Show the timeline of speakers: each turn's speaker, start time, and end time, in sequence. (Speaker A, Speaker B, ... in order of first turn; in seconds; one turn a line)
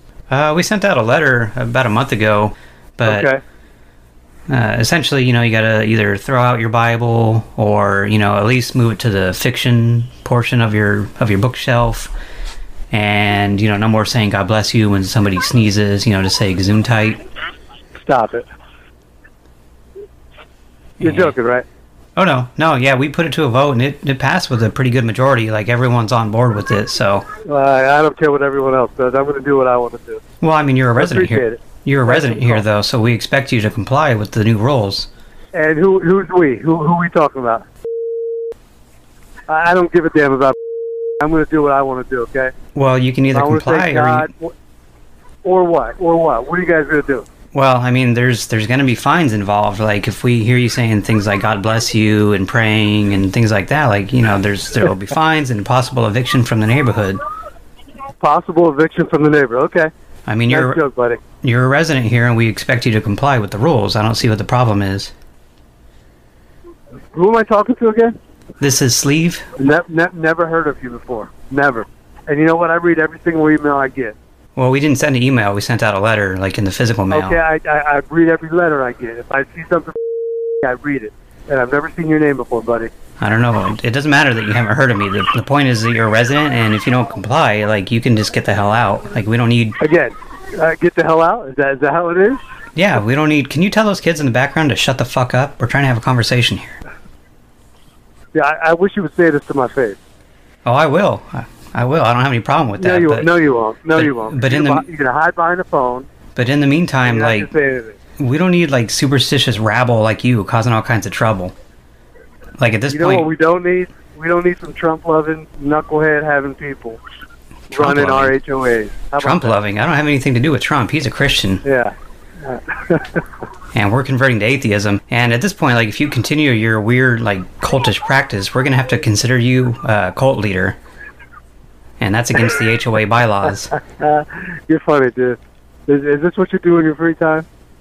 Speaker A: 0.3-3.3
Speaker B: 3.0-3.4
Speaker A: 4.5-12.1
Speaker A: 12.9-17.2
Speaker B: 18.0-18.5
Speaker A: 21.0-21.4
Speaker B: 21.0-21.6
Speaker A: 22.2-27.3
Speaker B: 27.5-30.2
Speaker A: 30.4-35.1
Speaker B: 31.0-32.6
Speaker B: 35.5-37.6
Speaker B: 39.5-40.6
Speaker B: 41.2-42.5
Speaker A: 42.8-44.3
Speaker B: 43.3-44.5
Speaker B: 45.5-47.3
Speaker A: 47.5-57.2
Speaker B: 58.2-59.9
Speaker A: 60.3-60.8
Speaker B: 60.5-61.2
Speaker A: 61.4-65.1
Speaker B: 67.1-68.2
Speaker A: 68.6-69.5
Speaker B: 69.6-74.2
Speaker A: 74.6-77.4
Speaker B: 77.1-80.0
Speaker B: 80.6-82.9
Speaker A: 83.2-89.8
Speaker B: 89.8-92.4
Speaker A: 92.8-96.8
Speaker B: 98.3-100.0
Speaker A: 100.7-103.3
Speaker B: 102.8-106.1
Speaker A: 103.9-104.8
Speaker A: 106.4-107.5
Speaker B: 107.0-108.0
Speaker A: 108.2-111.5
Speaker A: 112.6-113.3
Speaker B: 112.9-117.0
Speaker A: 117.7-118.4
Speaker B: 117.7-119.6
Speaker A: 119.2-121.6
Speaker B: 121.6-123.2
Speaker A: 123.7-130.8
Speaker A: 132.0-133.7
Speaker B: 133.8-137.5